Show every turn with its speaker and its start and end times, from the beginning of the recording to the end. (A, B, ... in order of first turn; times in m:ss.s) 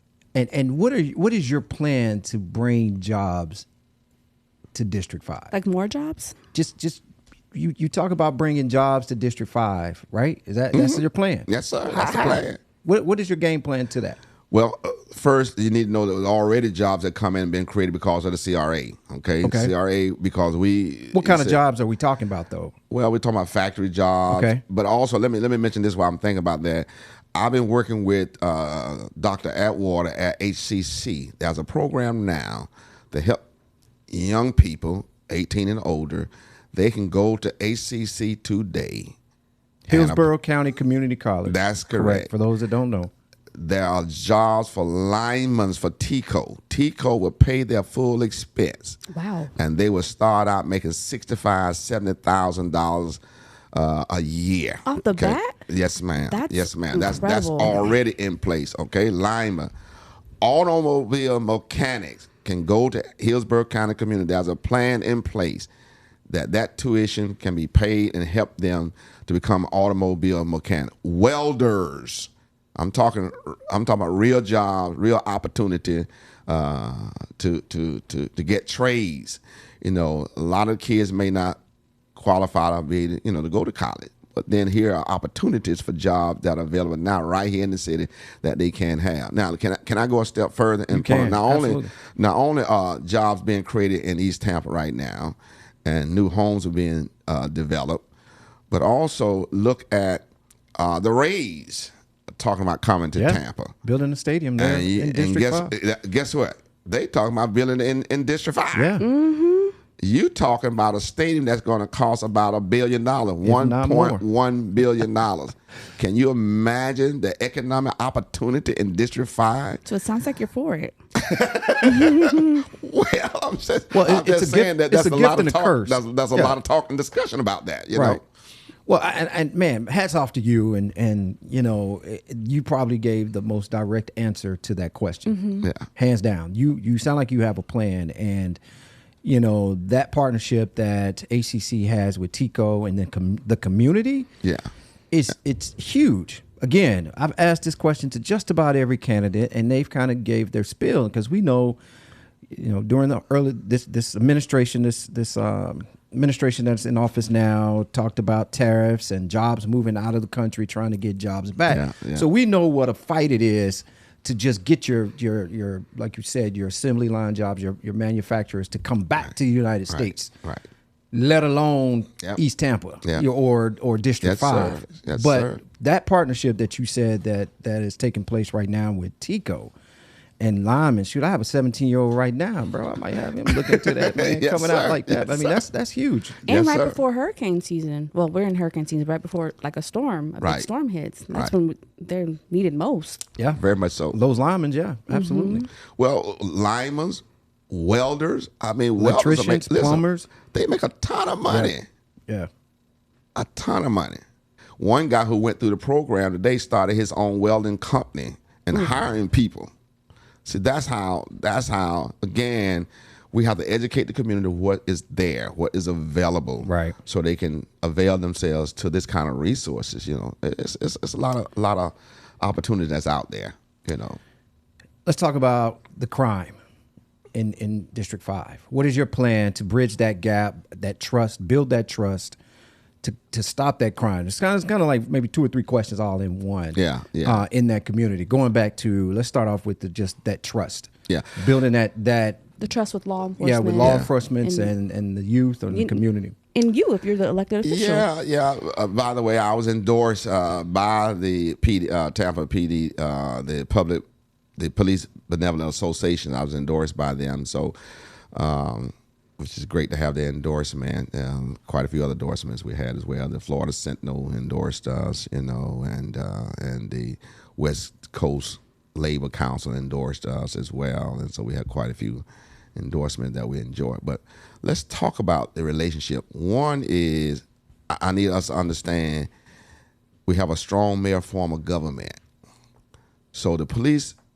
0:00.4-0:03.7 A
0:04.7-0:05.5 A
0:05.5-0:06.4 B
0:06.5-0:07.0 A
0:07.5-0:14.2 A
0:10.7-0:12.6 C
0:12.0-0:12.4 B
0:14.5-0:21.6 C
0:19.4-0:19.7 A
0:21.1-0:22.7 A
0:22.9-0:33.4 C
0:24.3-0:24.6 A
0:34.1-0:39.1 C
0:39.9-0:43.1 A
0:39.9-0:40.3 C
0:41.4-0:42.3 C
0:43.5-0:49.0 C
0:49.1-0:49.5 B
0:49.6-0:53.2 C
0:53.7-0:59.7 C
0:54.8-0:55.6 B
0:56.3-0:57.9 B
1:00.4-1:05.7 C
1:06.3-1:21.6 C
1:22.2-1:38.0 C
1:30.9-1:31.9 A
1:38.7-1:40.2 C
1:40.8-1:43.7 C
1:43.2-1:45.7 A
1:44.6-1:49.0 C
1:48.7-1:49.1 A
1:49.0-1:49.8 B
1:50.0-1:59.8 C
1:53.4-1:54.2 A
1:59.8-2:01.0 B
2:01.2-2:08.2 C
2:01.8-2:02.6 B
2:03.9-2:06.6 A
2:07.9-2:08.2 A
2:08.9-2:18.6 A
2:15.3-2:15.7 B
2:19.2-2:24.3 A
2:25.1-2:31.8 A
2:32.5-2:50.3 A
2:41.7-2:42.3 C
2:49.9-2:50.6 C
2:51.1-2:59.7 A
2:54.2-2:55.6 C
3:00.4-3:06.4 A
3:03.5-3:05.6 C
3:06.5-3:07.0 C
3:06.5-3:13.2 B
3:10.4-3:10.7 C
3:13.6-3:14.2 C
3:14.1-3:15.7 A
3:15.1-3:15.7 B
3:16.0-3:21.8 C
3:19.0-3:20.3 A
3:21.5-3:21.7 A
3:23.4-3:24.2 C
3:24.8-3:29.7 C
3:30.4-3:44.2 C
3:36.6-3:37.0 A
3:45.1-3:46.6 A
3:47.4-3:52.4 A
3:53.0-4:02.5 A
3:56.8-3:57.4 C
4:01.1-4:01.3 C
4:02.6-4:04.7 B
4:03.4-4:06.4 A
4:03.8-4:04.1 C
4:05.7-4:06.0 B
4:06.5-4:08.1 B
4:07.6-4:14.0 C
4:14.6-4:17.8 C
4:18.3-4:32.2 C
4:32.8-4:39.3 C
4:40.3-4:42.2 C
4:43.3-4:44.2 C